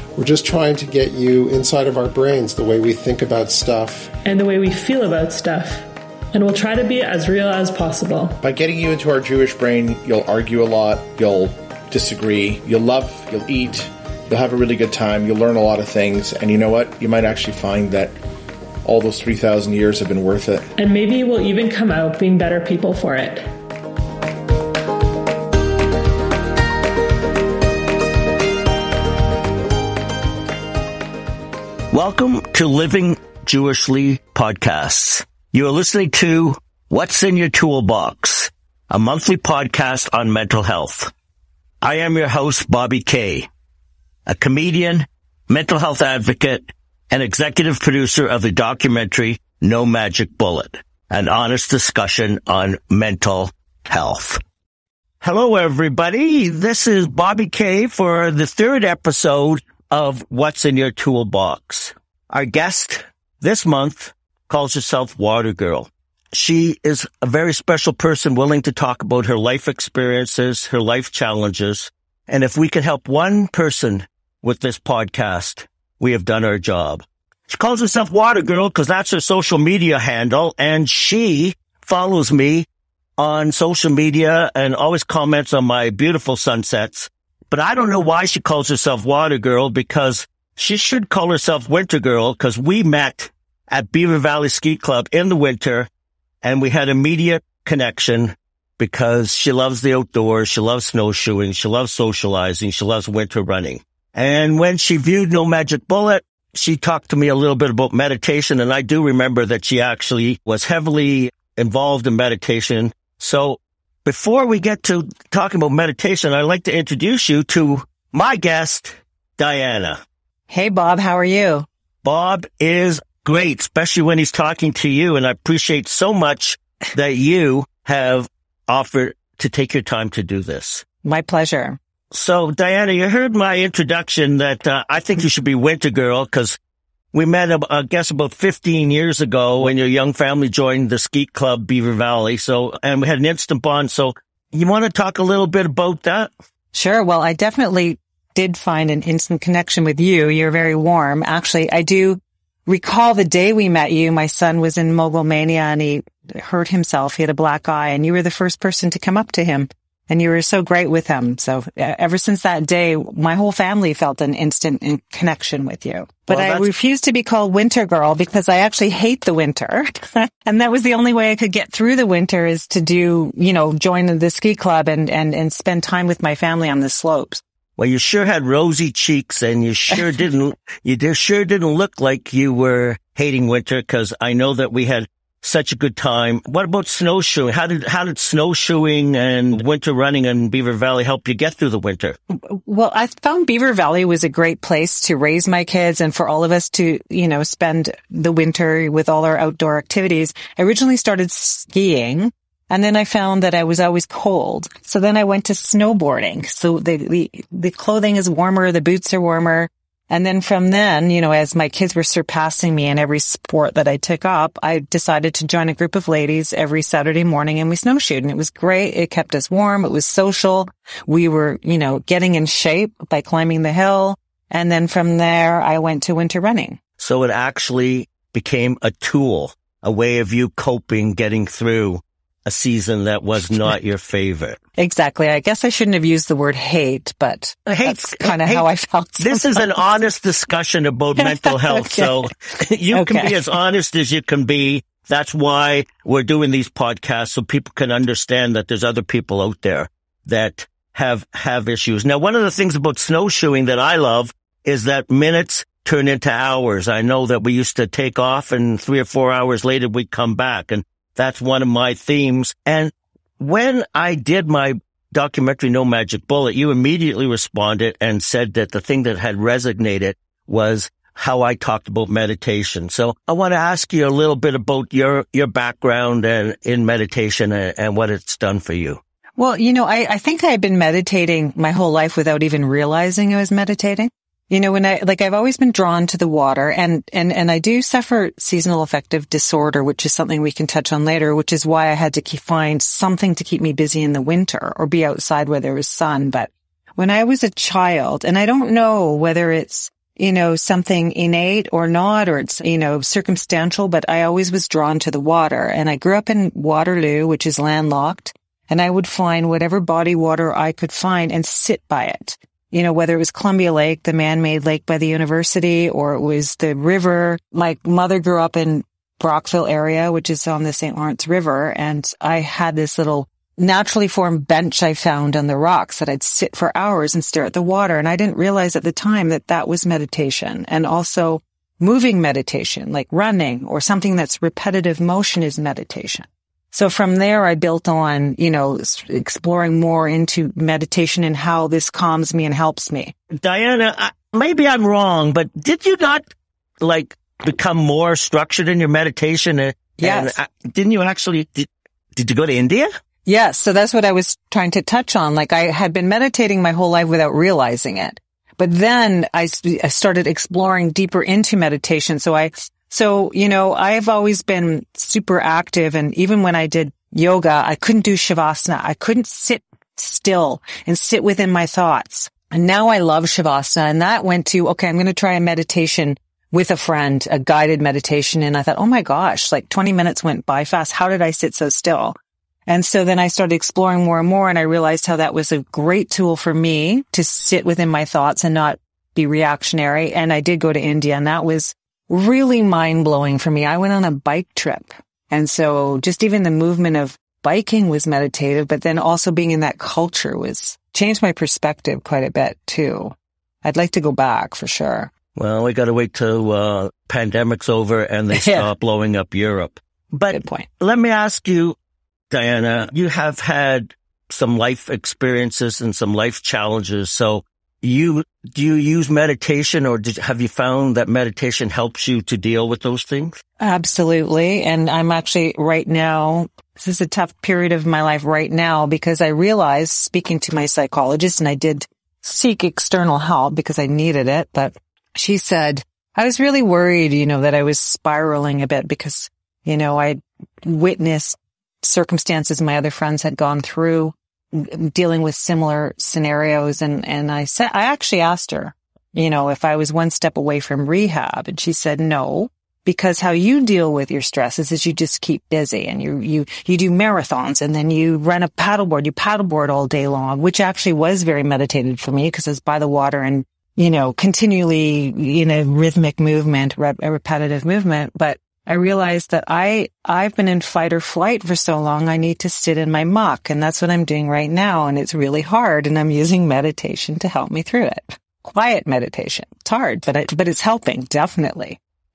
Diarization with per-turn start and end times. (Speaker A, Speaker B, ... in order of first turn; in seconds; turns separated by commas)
Speaker A: 0.1-4.1, Speaker B: 4.2-8.4, Speaker C: 8.4-18.1, Speaker C: 18.8-20.7, Speaker B: 20.8-23.5, Speaker D: 31.9-41.1, Speaker D: 41.8-43.5, Speaker D: 44.2-54.4, Speaker D: 55.2-82.7, Speaker D: 83.2-95.9, Speaker D: 96.4-120.0, Speaker E: 120.5-121.7, Speaker D: 122.0-130.8, Speaker E: 131.0-131.8, Speaker D: 132.1-136.6, Speaker D: 137.1-146.3, Speaker E: 146.7-177.4, Speaker D: 166.3-166.7, Speaker D: 177.8-192.2, Speaker E: 192.3-226.8, Speaker D: 227.0-234.6, Speaker E: 234.8-239.7, Speaker D: 237.7-238.7, Speaker D: 239.2-279.0, Speaker E: 241.2-242.2, Speaker E: 242.9-243.4, Speaker E: 279.4-343.1, Speaker D: 343.3-346.3, Speaker D: 346.8-352.9, Speaker E: 350.0-350.4, Speaker E: 353.2-405.1, Speaker D: 405.4-411.8, Speaker E: 408.3-408.7, Speaker E: 410.3-410.6, Speaker D: 412.3-423.4, Speaker E: 423.6-481.8